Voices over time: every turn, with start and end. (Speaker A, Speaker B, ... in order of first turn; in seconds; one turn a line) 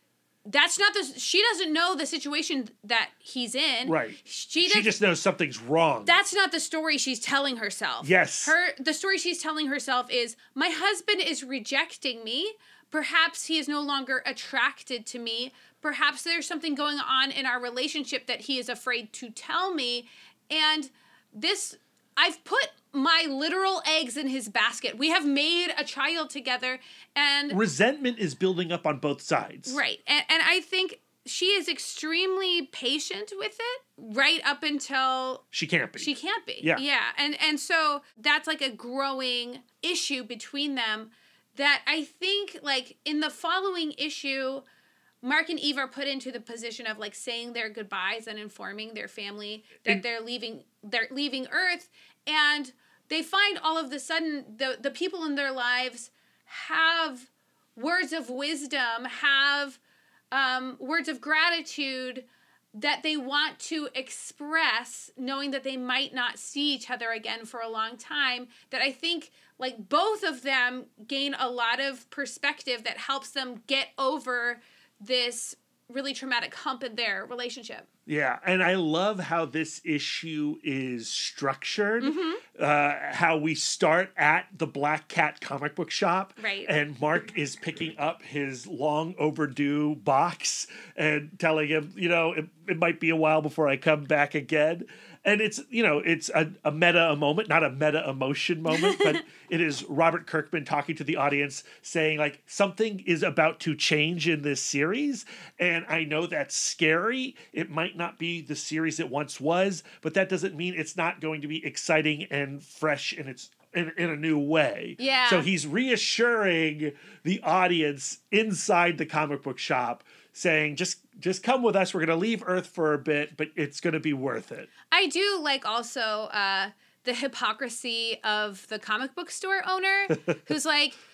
Speaker A: 0.4-5.0
Speaker B: 3.8-6.2
Speaker A: 6.0-27.6
Speaker B: 8.0-8.6
Speaker B: 27.5-29.8
Speaker A: 29.7-35.4
Speaker B: 35.5-36.8
Speaker A: 36.0-44.6
Speaker A: 45.2-59.8
Speaker A: 60.3-77.9
Speaker B: 78.1-124.7
Speaker A: 82.0-82.4
Speaker A: 86.4-86.7
Speaker A: 98.7-99.2
Speaker A: 115.0-115.5
Speaker A: 124.9-131.0